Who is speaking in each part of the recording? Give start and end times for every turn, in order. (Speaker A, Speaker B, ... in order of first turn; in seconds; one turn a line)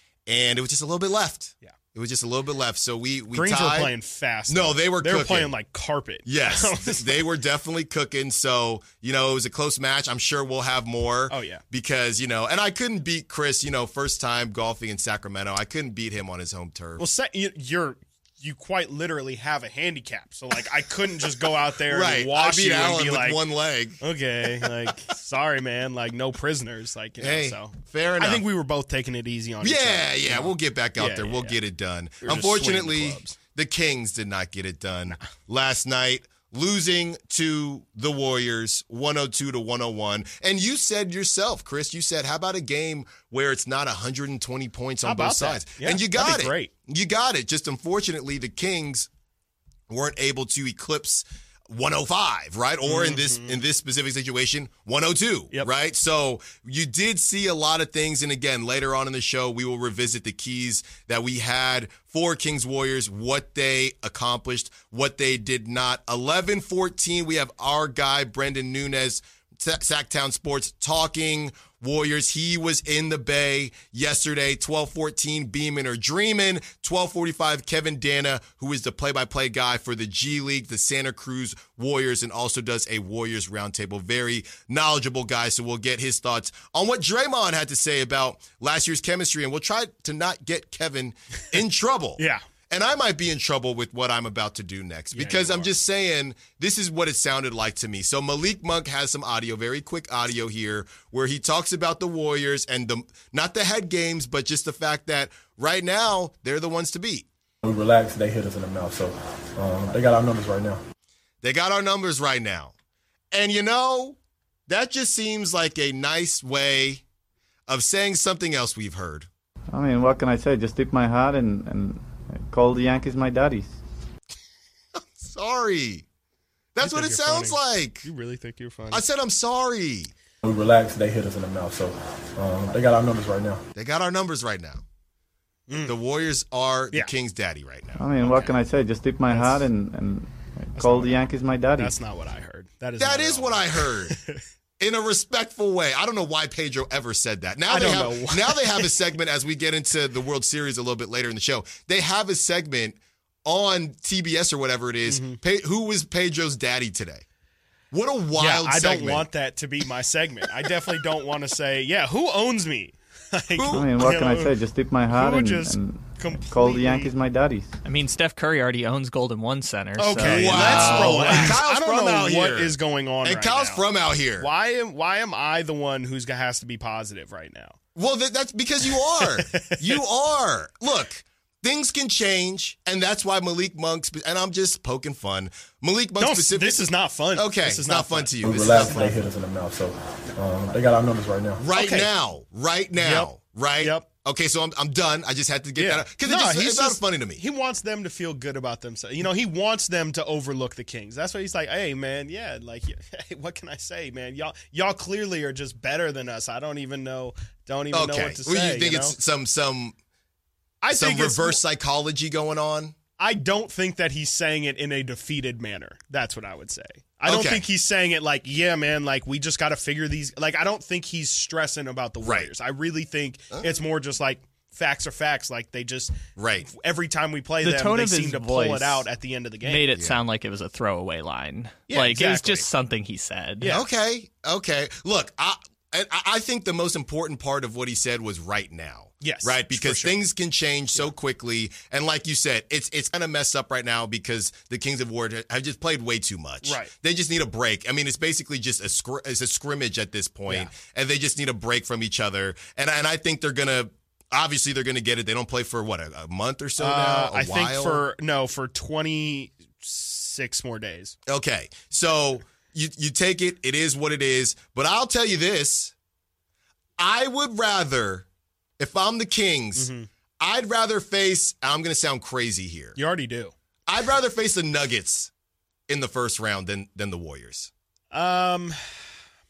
Speaker A: 0.3-3.9
Speaker B: 3.3-7.3
Speaker A: 4.5-5.5
Speaker A: 6.3-17.0
Speaker B: 11.3-11.6
Speaker B: 17.0-23.4
Speaker A: 21.9-24.7
Speaker B: 24.0-31.6
Speaker A: 27.2-28.4
Speaker A: 29.6-49.1
Speaker B: 32.2-33.4
Speaker B: 45.0-46.7
Speaker A: 49.9-107.3
Speaker B: 52.9-53.6
Speaker B: 95.1-95.7
Speaker C: 107.6-110.8
Speaker A: 111.4-112.8
Speaker A: 113.3-117.0
Speaker A: 117.7-119.3
Speaker D: 119.7-123.8
Speaker A: 125.0-126.0
Speaker A: 126.8-128.1
Speaker B: 126.8-129.0
Speaker A: 128.9-130.1
Speaker C: 130.4-133.6
Speaker A: 133.8-134.8
Speaker B: 135.7-135.9
Speaker A: 135.8-138.0
Speaker D: 137.9-142.0
Speaker B: 138.2-138.5
Speaker B: 139.3-139.7
Speaker B: 140.8-141.2
Speaker B: 141.7-144.4
Speaker A: 143.0-144.2
Speaker A: 144.8-157.2
Speaker B: 147.7-148.9
Speaker B: 155.1-155.4
Speaker A: 157.9-159.3
Speaker B: 158.3-167.1
Speaker A: 163.5-164.3
Speaker D: 163.7-167.7
Speaker E: 167.8-171.6
Speaker B: 170.0-173.8
Speaker A: 170.2-174.5
Speaker B: 174.4-177.8
Speaker A: 177.9-189.1
Speaker B: 179.2-180.0
Speaker B: 186.2-189.2
Speaker C: 188.4-191.6
Speaker A: 191.6-197.4
Speaker B: 191.7-192.1
Speaker B: 193.0-194.1
Speaker B: 195.8-209.2
Speaker A: 207.9-210.0
Speaker B: 210.8-211.6
Speaker A: 210.9-212.9
Speaker B: 213.2-229.8
Speaker A: 217.2-217.6
Speaker A: 222.2-222.5
Speaker A: 226.4-226.7
Speaker E: 227.6-229.1
Speaker E: 229.6-233.7
Speaker A: 229.9-230.2
Speaker B: 231.9-232.7
Speaker B: 233.6-233.8
Speaker A: 233.7-258.0
Speaker B: 239.2-240.2
Speaker B: 246.6-246.9
Speaker B: 256.8-261.2
Speaker A: 261.3-265.9
Speaker A: 267.0-268.3
Speaker A: 268.8-273.0
Speaker B: 269.8-270.1
Speaker B: 273.0-273.5
Speaker A: 273.9-275.3
Speaker A: 275.9-277.7
Speaker B: 278.1-278.9